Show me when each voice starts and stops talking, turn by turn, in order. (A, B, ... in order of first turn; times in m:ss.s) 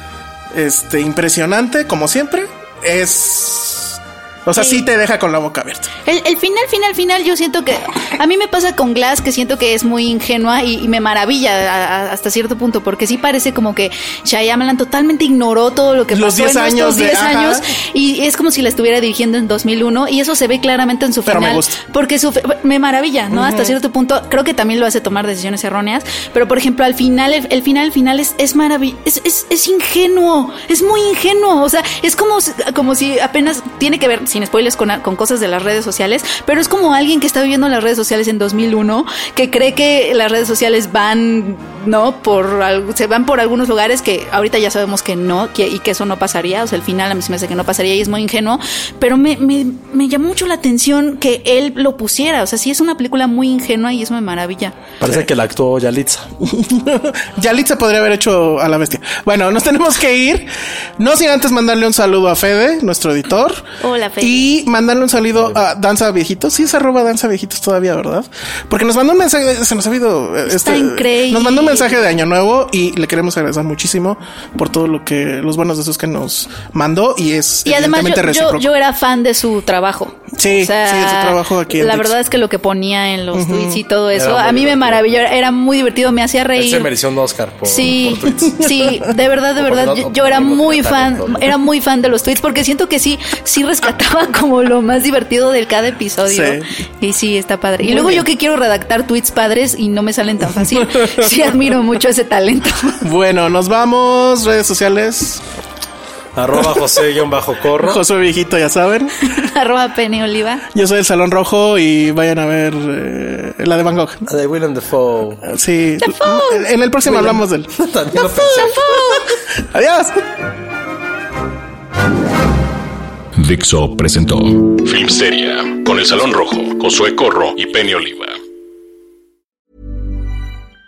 0:00.5-0:05.9 A
0:04.6-0:04.9 B
0:06.0-0:54.9 B
0:16.1-0:17.7 A
0:21.3-0:21.8 A
0:23.3-0:23.8 A
0:55.0-0:56.3 C
0:56.4-1:03.7 A
1:03.8-1:04.5 B
1:04.2-1:18.7 A
1:05.4-1:05.6 C
1:10.5-1:12.2 B
1:17.6-1:26.9 B
1:20.4-1:22.2 A
1:23.3-1:23.8 A
1:24.1-1:25.2 C
1:26.6-1:29.0 C
1:27.6-1:43.0 B
1:29.6-1:31.6 C
1:36.3-1:36.7 A
1:37.8-1:38.3 A
1:40.8-1:41.3 A
1:43.0-1:45.4 A
1:46.4-1:48.0 C
1:46.6-1:46.8 A
1:47.8-1:49.3 A
1:49.2-1:50.7 B
1:50.7-1:54.3 A
1:54.3-1:55.5 C
1:55.5-1:57.7 A
1:56.0-1:56.7 B
1:57.0-1:58.9 C
1:58.2-1:59.4 B
1:59.7-2:00.2 A
2:03.4-2:08.4 D